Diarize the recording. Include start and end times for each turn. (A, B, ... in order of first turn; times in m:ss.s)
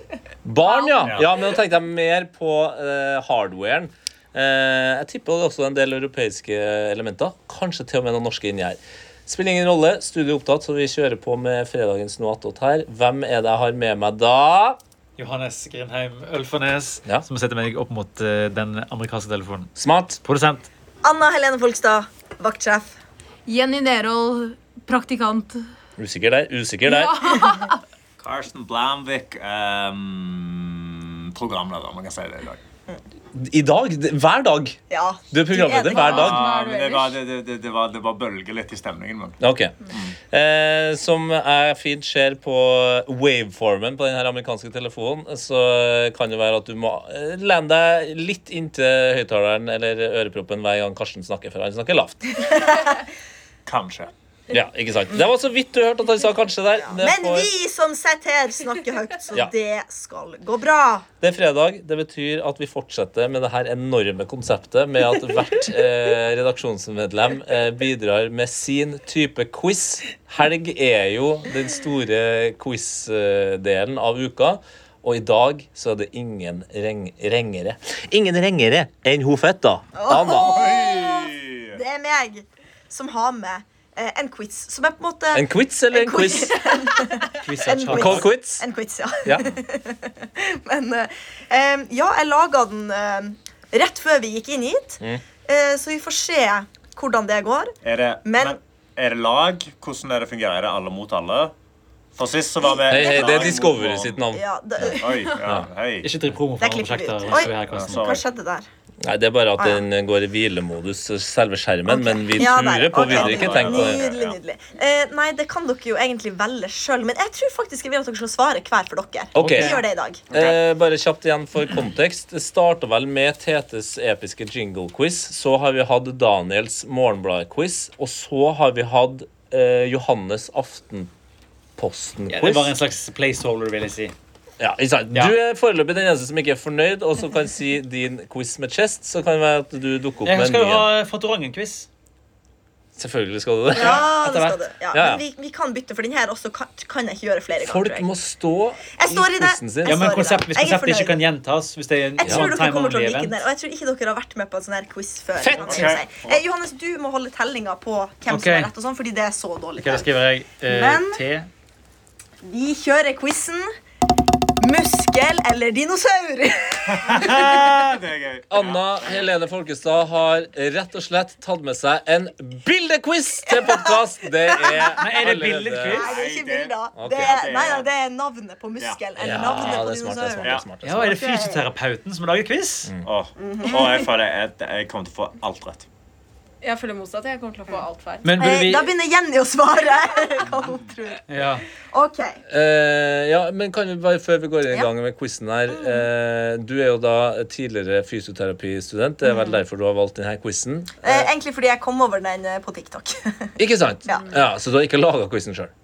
0:00.4-0:14.8 A
0:01.0-0:01.3 B
0:15.2-0:19.7 C
0:19.8-0:20.2 A
0:20.2-0:20.7 C
0:21.0-0:22.9 D
0:23.5-0:25.6 E
0:26.0-0:27.3 A
0:26.8-0:27.8 E
0:28.2-0:32.6 B
0:33.3-0:34.8 A
0:34.9-0:36.7 D
0:35.3-0:36.5 A
0:35.8-0:37.2 E
0:36.1-0:39.4 B
0:39.4-0:52.4 A
0:52.6-0:53.0 D
0:53.7-0:54.1 B
0:54.5-0:57.5 A
0:56.8-1:01.1 D
1:01.2-1:20.6 A
1:20.0-1:38.6 D
1:20.3-1:21.8 B
1:25.3-1:26.6 A
1:27.4-1:28.3 C
1:27.9-1:28.6 A
1:37.8-1:41.5 B
1:42.2-1:44.2 B
1:42.6-1:43.6 D
1:42.9-1:45.7 A
1:44.3-1:45.3 D
1:44.9-1:46.1 B
1:46.0-1:48.1 C
1:46.6-1:48.7 D
1:47.6-1:48.2 B
1:49.0-1:54.1 A
1:51.9-2:00.3 D
1:53.0-1:54.4 B
1:59.4-2:11.1 A
1:59.4-1:59.8 C
2:11.8-2:12.7 A
2:12.3-2:14.1 C
2:14.6-2:20.9 A
2:20.2-2:21.9 C
2:23.0-2:24.1 A
2:23.7-2:28.1 D
2:23.8-2:24.6 C
2:24.9-2:25.2 A
2:27.6-2:30.2 A
2:29.0-2:31.2 D
2:29.8-2:33.4 C
2:32.2-2:40.1 D
2:35.4-2:36.0 A
2:35.6-2:36.4 B
2:38.3-2:38.7 C
2:39.8-2:41.5 C
2:40.6-2:41.2 D
2:42.4-2:43.7 D
2:44.6-2:47.8 D
2:46.9-2:49.3 B
2:48.5-2:56.2 A
2:53.5-2:55.0 D
2:55.0-2:56.1 C
2:55.9-3:01.6 D
2:56.0-2:57.9 B
2:57.0-2:57.5 A
2:59.2-3:01.2 A
3:00.8-3:02.9 C
3:03.0-3:05.9 B
3:03.4-3:04.1 D
3:06.6-3:08.4 E
3:08.2-3:08.9 C
3:08.4-3:12.4 D
3:11.3-3:11.6 C
3:12.5-3:21.3 A
3:19.3-3:19.6 D
3:21.0-3:23.5 D
3:23.6-3:25.7 A
3:24.1-3:24.4 D